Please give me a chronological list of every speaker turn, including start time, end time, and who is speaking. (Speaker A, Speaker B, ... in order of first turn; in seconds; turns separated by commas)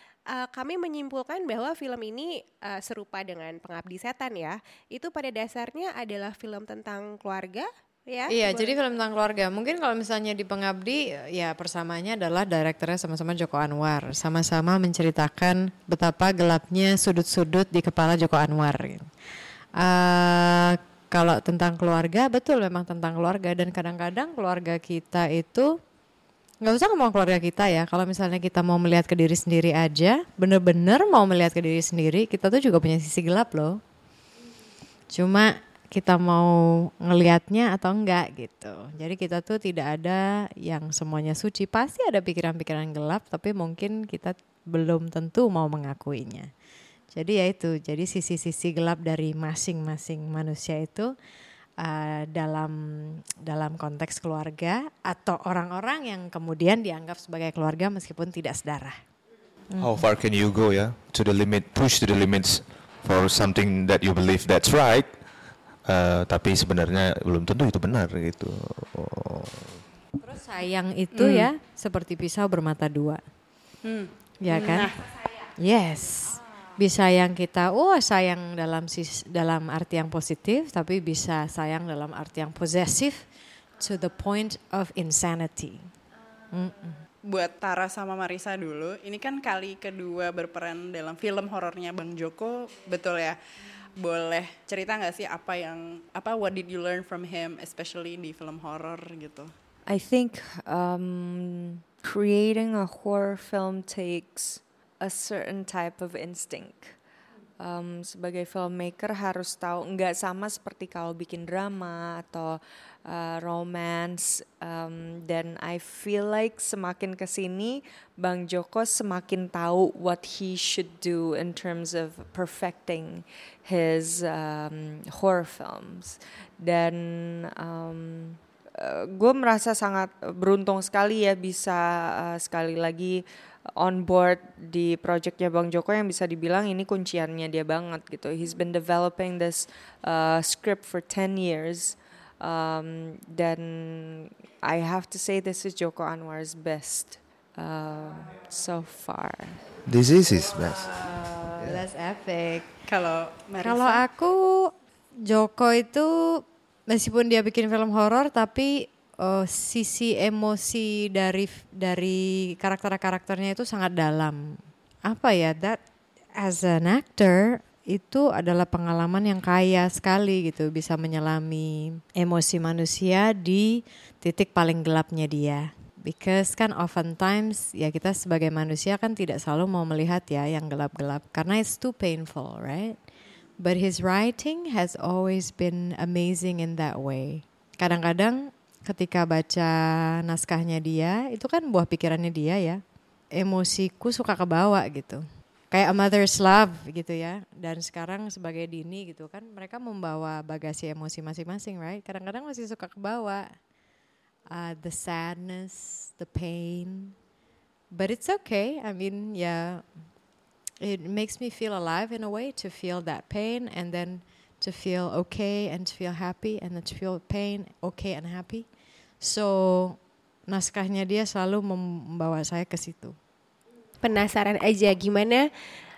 Speaker A: 0.3-8.7, Speaker B: 8.3-19.1, Speaker B: 19.8-25.7, Speaker B: 26.6-33.8, Speaker B: 35.1-46.5, Speaker B: 47.1-51.1, Speaker B: 51.8-59.0, Speaker C: 59.8-65.1, Speaker C: 65.8-69.7, Speaker B: 70.2-73.2, Speaker D: 71.1-71.5, Speaker D: 73.8-75.0, Speaker B: 74.4-74.9, Speaker B: 75.6-83.2, Speaker B: 83.8-85.9, Speaker B: 86.5-87.0, Speaker D: 87.2-93.4, Speaker D: 94.0-99.5, Speaker E: 99.9-106.9, Speaker E: 107.6-133.2, Speaker E: 133.8-149.6, Speaker C: 149.8-151.1, Speaker B: 151.6-152.7, Speaker D: 152.9-154.0, Speaker B: 153.6-154.7, Speaker B: 155.2-165.8, Speaker B: 166.4-183.0, Speaker B: 183.6-192.8, Speaker B: 193.3-203.5, Speaker B: 204.5-207.1, Speaker B: 207.9-209.8, Speaker B: 210.8-218.7, Speaker B: 219.2-223.2, Speaker A: 224.0-225.5